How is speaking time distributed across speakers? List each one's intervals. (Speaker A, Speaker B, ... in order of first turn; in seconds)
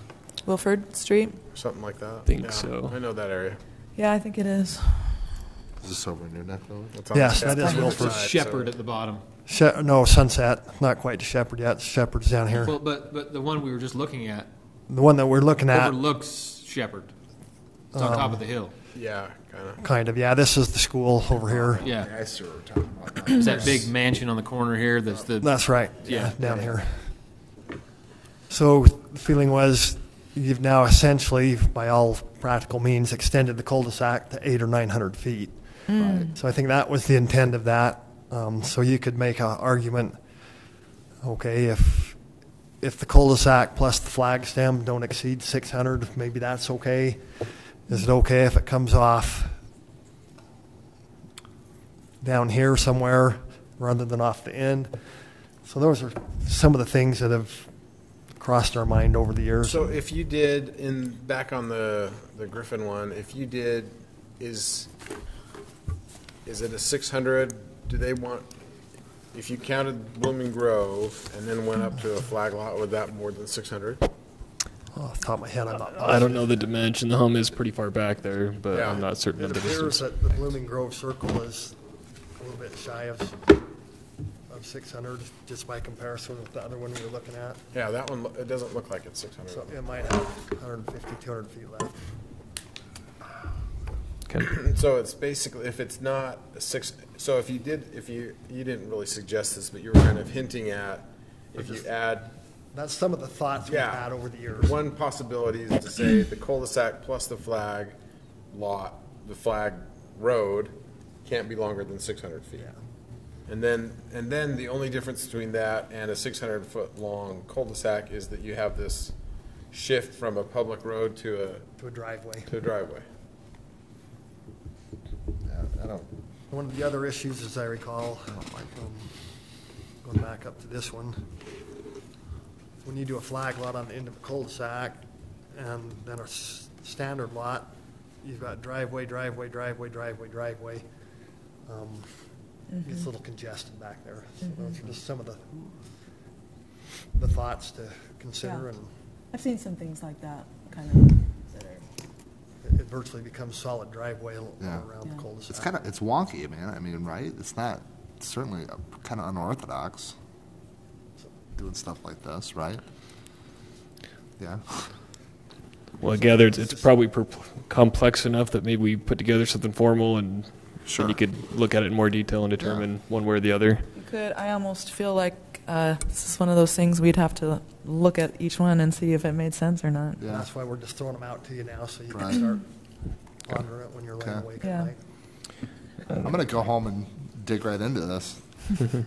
Speaker A: 0.4-1.4, 4.0-5.3, 7.6-7.9, 35.9-36.3, 142.7-143.0, 149.3-151.8, 173.9-180.2, 184.6-184.9
Speaker B: 1.5-3.6, 6.9-8.7, 18.9-19.8, 59.6-64.9, 66.4-68.5, 69.3-74.0, 78.7-79.2, 87.7-90.0, 94.5-102.3, 103.7-104.1, 104.6-107.9, 108.5-110.7, 111.2-112.7, 113.5-119.1, 119.7-121.6, 122.5-123.0
Speaker C: 2.2-3.0, 76.0-80.1, 166.0-173.8
Speaker D: 5.8-6.9, 21.5-23.5, 36.0-36.3, 125.5-126.0, 128.3-128.7, 154.6-154.8, 155.5-160.1, 161.6-162.8, 164.4-164.8, 170.8-171.2, 172.6-172.9, 180.2-180.5, 182.1-182.5, 184.2-184.5, 186.2-188.4
Speaker E: 7.1-8.2, 9.5-12.8, 14.9-16.0, 17.9-18.5, 19.8-21.9, 25.4-27.1, 28.5-40.2, 41.2-42.2, 42.8-49.6, 52.2-55.0, 55.6-57.7, 58.4-60.0, 74.9-76.6, 79.3-81.7, 82.4-83.3, 84.5-87.6, 89.5-91.9, 101.6-101.9, 102.7-104.8, 121.8-122.5, 126.5-129.1, 130.0-131.2, 132.8-140.8, 141.7-142.1, 142.8-145.7, 147.1-148.9, 152.6-155.8, 166.0-166.9, 180.2-182.6, 183.4-185.0
Speaker F: 7.6-9.2, 12.6-14.5, 15.7-17.1, 17.9-18.7, 21.8-22.1, 23.3-26.4